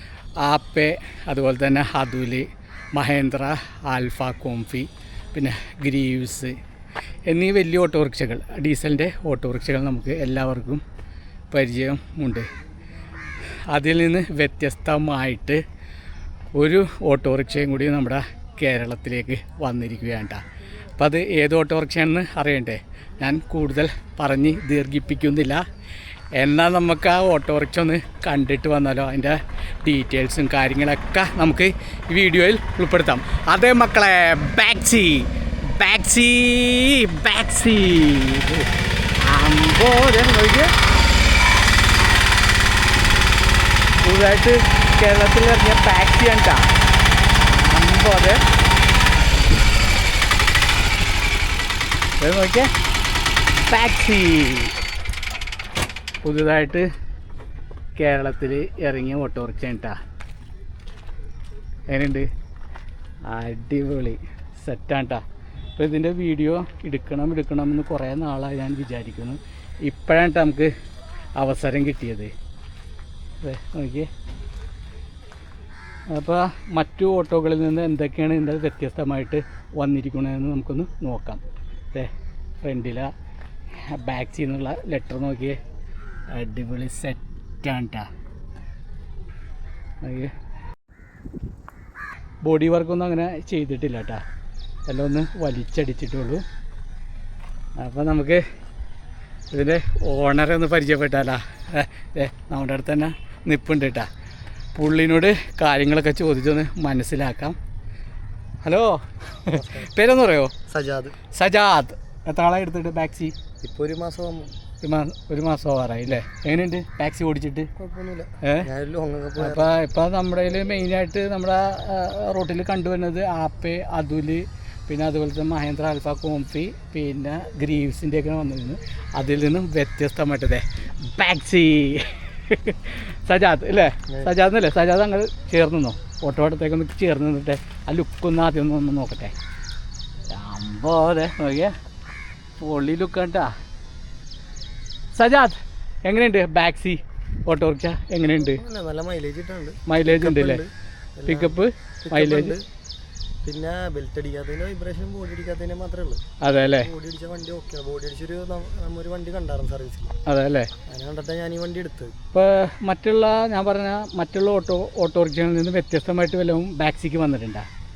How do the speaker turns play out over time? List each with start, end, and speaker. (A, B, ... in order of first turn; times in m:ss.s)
0:00.4-0:06.6 A
0:07.3-0:10.8 A
0:11.5-0:12.5 A
0:13.7-0:15.6 A
0:16.5-0:20.4 A
0:21.0-0:25.6 A
0:26.4-0:38.7 A
0:39.2-0:40.7 A
0:44.0-0:46.7 A
0:47.4-0:48.4 A
0:52.2-0:52.7 A
0:53.7-0:54.7 A
0:56.2-0:56.9 A
0:58.0-1:00.0 A
1:01.9-1:02.3 A
1:03.3-1:05.2 A
1:05.8-1:10.7 A
1:11.4-1:12.3 A
1:13.4-1:14.1 A
1:16.1-1:21.4 A
1:22.6-1:23.1 A
1:23.8-1:25.6 A
1:26.3-1:28.1 A
1:30.0-1:30.3 A
1:32.4-1:34.2 A
1:34.9-1:36.4 A
1:37.8-1:38.4 A
1:39.5-1:44.1 A
1:44.7-1:47.6 A
1:48.6-1:50.5 A
1:49.5-1:49.9 B
1:50.7-1:51.2 B
1:51.3-1:53.4 A
1:53.6-1:54.5 B
1:54.8-1:57.7 A
1:57.8-1:59.7 B
1:58.4-1:58.7 A
1:59.4-2:19.3 A
2:20.3-2:21.8 A
2:22.6-2:23.5 A
2:25.1-2:28.6 A
2:28.4-2:32.6 B
2:29.9-2:30.6 A
2:31.3-2:32.6 A
2:33.4-2:36.2 B
2:36.4-2:36.9 A
2:36.7-2:40.1 B
2:40.2-2:40.7 A
2:40.8-2:42.1 B
2:42.3-2:47.7 A